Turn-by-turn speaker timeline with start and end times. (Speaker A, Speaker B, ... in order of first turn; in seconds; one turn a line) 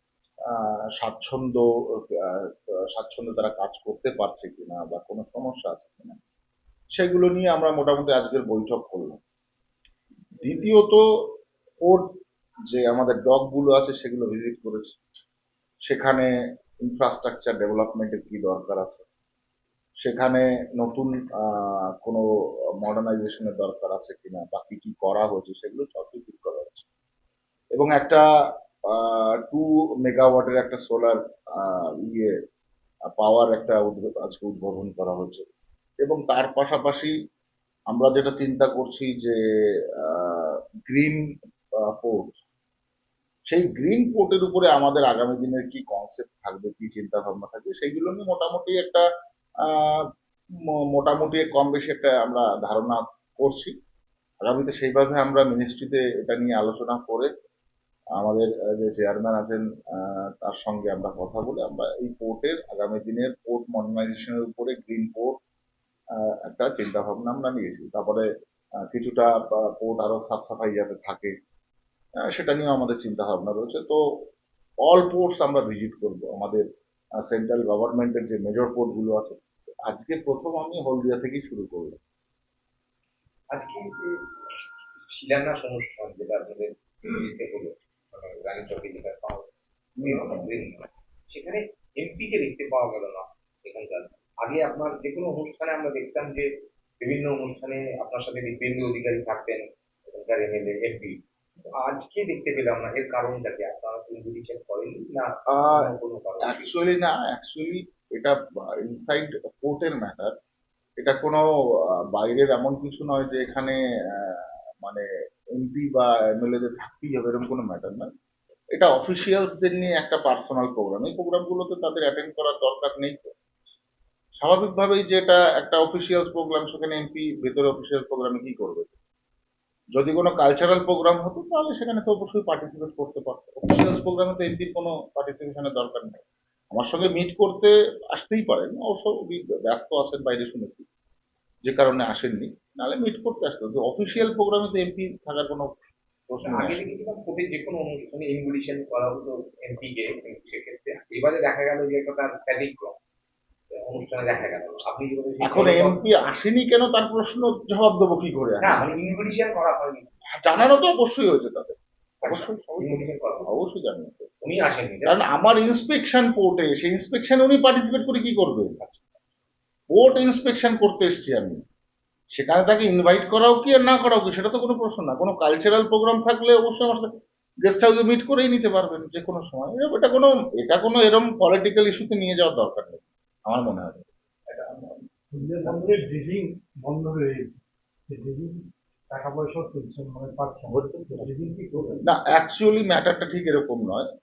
Speaker A: 0.4-6.2
Speaker A: 6.9-9.2
Speaker A: 10.4-12.1
Speaker A: 12.7-15.0
Speaker A: 15.8-19.1
Speaker A: 20.0-22.2
Speaker A: 22.8-26.8
Speaker A: 27.7-28.2
Speaker A: 28.9-32.4
Speaker A: 33.2-35.5
Speaker A: 36.0-37.1
Speaker A: 37.9-41.2
Speaker A: 41.8-42.4
Speaker A: 43.5-49.0
Speaker A: 49.6-50.1
Speaker A: 50.7-53.7
Speaker A: 54.4-57.3
Speaker A: 58.1-65.4
Speaker A: 66.1-68.3
Speaker A: 68.8-71.3
Speaker A: 72.2-74.2
Speaker A: 74.8-76.6
Speaker A: 77.2-82.0
Speaker B: 83.5-84.2
Speaker B: 85.1-89.5
Speaker A: 90.0-90.6
Speaker B: 90.0-96.5
Speaker B: 97.0-101.2
Speaker B: 101.7-106.7
Speaker A: 105.5-105.9
Speaker A: 106.4-110.3
Speaker A: 111.0-118.1
Speaker A: 118.7-123.3
Speaker A: 124.4-128.9
Speaker A: 129.9-140.8
Speaker A: 141.6-145.7
Speaker A: 146.3-146.8
Speaker B: 146.4-152.9
Speaker B: 153.7-156.0
Speaker A: 155.4-158.8
Speaker B: 158.6-160.7
Speaker A: 160.3-164.3
Speaker B: 162.2-163.5
Speaker B: 164.4-165.2
Speaker A: 165.1-169.0
Speaker A: 169.9-171.6
Speaker A: 172.3-177.1
Speaker A: 177.6-184.8
Speaker C: 185.3-192.1
Speaker A: 190.7-191.3
Speaker A: 192.0-194.1